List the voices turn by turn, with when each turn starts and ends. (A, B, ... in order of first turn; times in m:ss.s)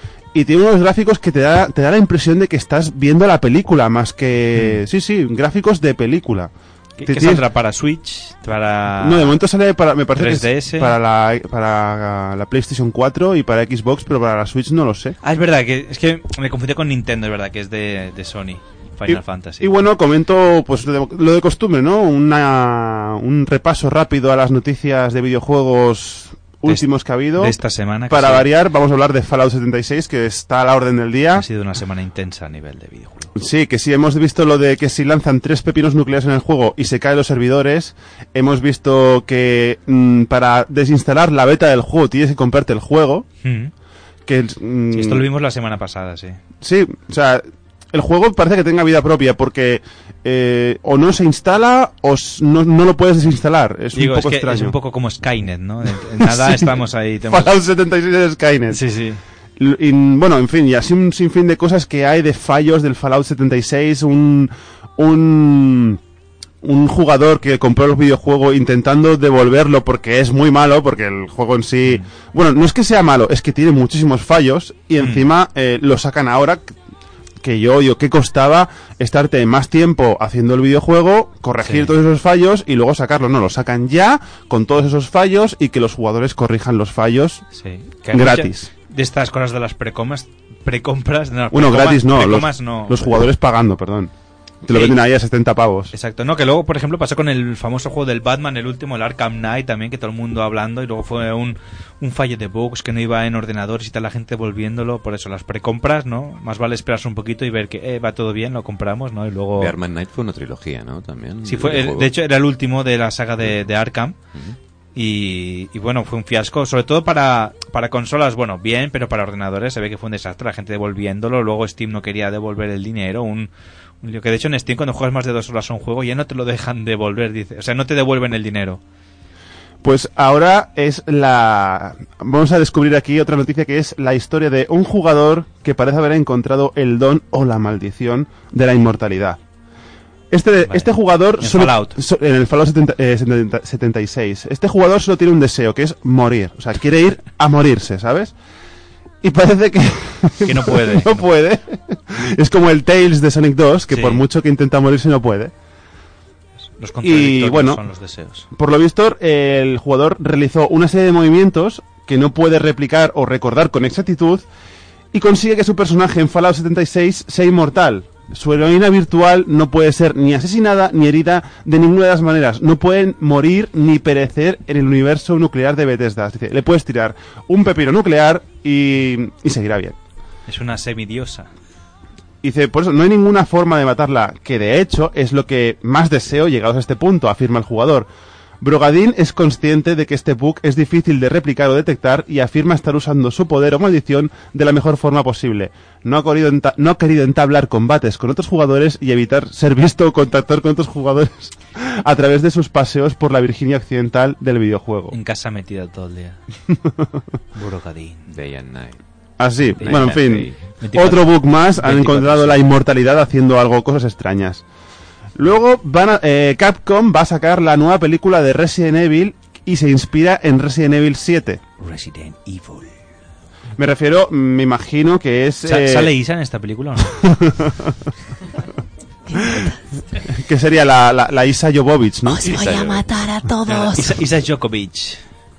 0:00.3-0:06.5 A
0:07.0-0:09.4 B
0:07.0-0:07.4 A
0:09.0-0:15.2 A
0:10.2-0:11.0 B
0:15.2-0:19.7 B
0:19.1-0:27.6 A
0:27.4-0:28.5 B
0:28.1-0:31.5 A
0:31.4-0:33.3 B
0:33.4-0:43.3 A
0:43.4-0:43.7 B
0:44.3-0:45.3 A
0:44.9-0:46.4 B
0:46.6-0:54.7 A
0:54.0-0:57.6 B
0:56.2-0:58.8 A
0:58.7-0:59.2 B
0:59.6-1:06.0 A
1:06.6-1:16.8 A
1:15.0-1:15.2 B
1:17.4-1:27.4 A
1:21.6-1:21.9 B
1:27.6-1:33.3 B
1:28.1-1:28.7 A
1:31.5-1:34.1 A
1:34.6-1:35.9 A
1:34.7-1:35.0 B
1:35.9-1:49.8 B
1:49.6-1:52.1 C
1:51.4-1:54.2 B
1:55.0-2:03.5 B
2:04.0-2:08.8 B
2:09.8-2:19.4 A
2:20.3-2:28.3 A
2:20.6-2:22.0 B
2:29.2-2:35.5 A
2:30.4-2:31.3 B
2:33.9-2:34.2 B
2:36.8-2:38.5 B
2:37.0-2:37.8 A
2:38.5-2:44.4 A
2:45.1-3:00.0 A
3:00.5-3:01.5 B
3:02.4-3:08.1 A
3:08.6-3:25.2 A
3:25.1-3:26.4 B
3:26.7-3:27.0 A
3:27.6-3:28.3 B
3:28.3-3:29.0 C
3:29.4-3:34.6 A
3:29.8-3:30.6 C
3:29.8-3:30.2 B
3:30.8-3:32.7 B
3:35.4-3:41.6 A
3:41.8-3:42.9 B
3:43.8-3:46.1 A
3:45.6-3:47.2 B
3:47.2-3:47.9 A
3:49.3-3:49.8 D
3:49.4-3:49.7 A
3:50.2-3:52.6 A
3:52.3-3:54.1 D
3:52.5-3:53.1 C
3:53.7-3:55.2 B